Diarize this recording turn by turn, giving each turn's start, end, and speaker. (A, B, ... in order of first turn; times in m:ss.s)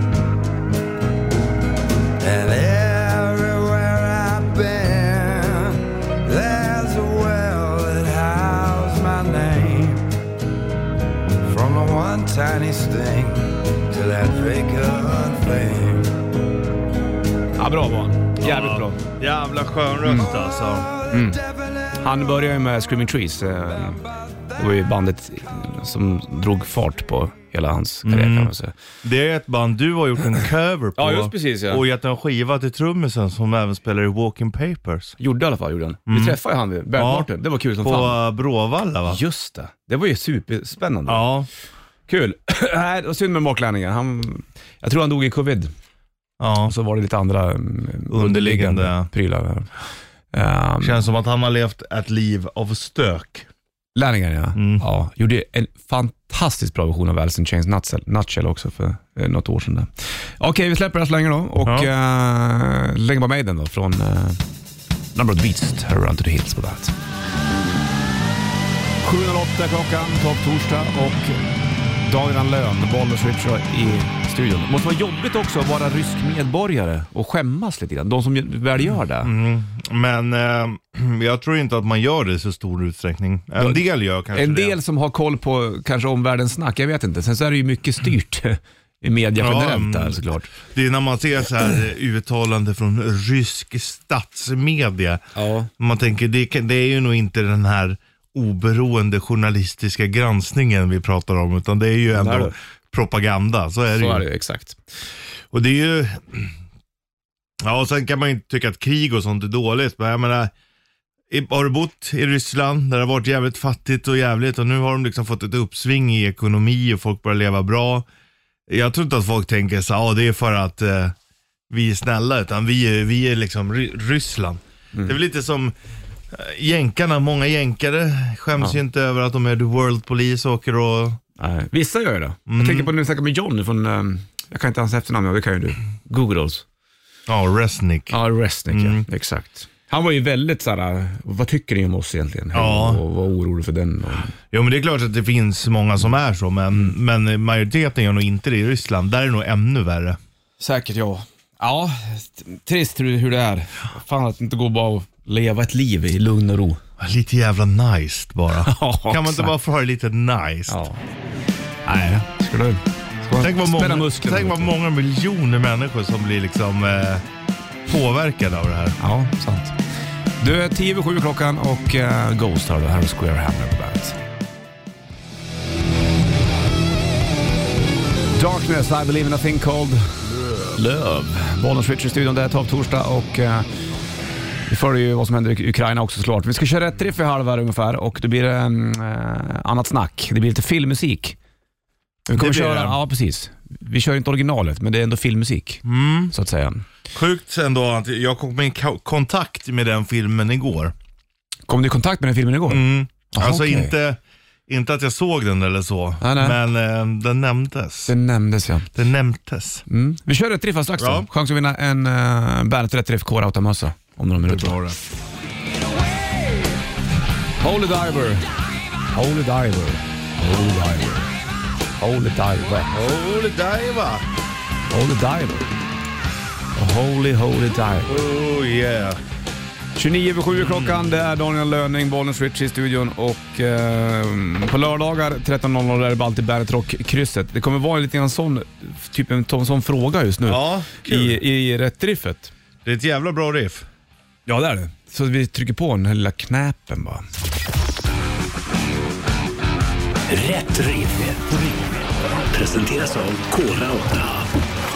0:02.2-0:10.1 A
0:11.4-0:16.2 A
0:17.6-0:19.0 B
0:18.4-0:20.9 C
0:20.0-0:20.3 B
0:20.8-0:21.4 A
0:21.1-0:21.4 B
0:21.9-0:24.0 B
0:24.5-0:28.7 B
0:28.0-0:35.2 C
0:31.0-0:31.8 B
0:35.2-0:38.2 B
0:36.1-0:36.4 C
0:36.9-0:37.3 C
0:37.8-0:39.2 C
0:39.1-0:41.3 B
0:41.1-0:41.5 C
0:42.1-0:45.7 B
0:46.4-0:46.7 C
0:46.6-0:49.7 B
0:48.1-0:49.1 C
0:50.3-0:51.0 B
0:50.8-0:53.5 C
0:53.9-1:04.4 B
0:54.6-0:54.8 C
1:05.1-1:06.9 B
1:09.0-1:11.4 B
1:12.0-1:19.3 B
1:19.2-1:24.8 C
1:24.3-1:30.5 B
1:29.4-1:35.2 C
1:35.3-1:35.7 B
1:35.8-1:44.2 C
1:42.1-1:42.5 B
1:43.9-1:44.8 B
1:45.5-1:46.5 C
1:47.6-1:50.5 C
1:51.3-1:58.1 C
1:58.7-2:01.1 C
2:01.7-2:05.7 C
2:06.3-2:11.2 C
2:11.4-2:16.6 B
2:12.5-2:12.9 C
2:17.3-2:18.2 C
2:18.1-2:24.3 B
2:18.7-2:19.0 C
2:22.5-2:23.0 C
2:24.5-2:30.2 C
2:30.6-2:36.8 B
2:37.0-2:40.8 C
2:38.6-2:39.5 B
2:40.7-2:41.0 B
2:41.8-2:44.7 B
2:43.4-2:47.2 C
2:47.8-2:49.0 C
2:49.0-2:49.8 B
2:50.4-2:54.2 B
2:58.3-3:03.7 B
3:04.7-3:11.4 B
3:12.3-3:16.8 B
3:12.4-3:13.0 C
3:15.8-3:16.3 C
3:17.1-3:20.9 C
3:21.7-3:23.9 B
3:22.7-3:28.1 C
3:26.2-3:26.6 B
3:28.1-3:28.9 B
3:28.9-3:29.8 C
3:29.9-3:34.8 B
3:31.0-3:31.3 C
3:34.4-3:35.0 C
3:37.6-3:38.4 B
3:39.1-3:41.3 B
3:42.0-3:42.9 B
3:42.9-3:44.2 C
3:44.9-3:45.7 B
3:46.8-3:48.1 B
3:48.1-3:49.2 C
3:50.0-4:02.5 B
3:50.6-3:51.1 C
4:00.4-4:01.4 C
4:02.8-4:03.8 C
4:04.5-4:07.2 B
4:10.3-4:12.0 D
4:12.5-4:14.5 D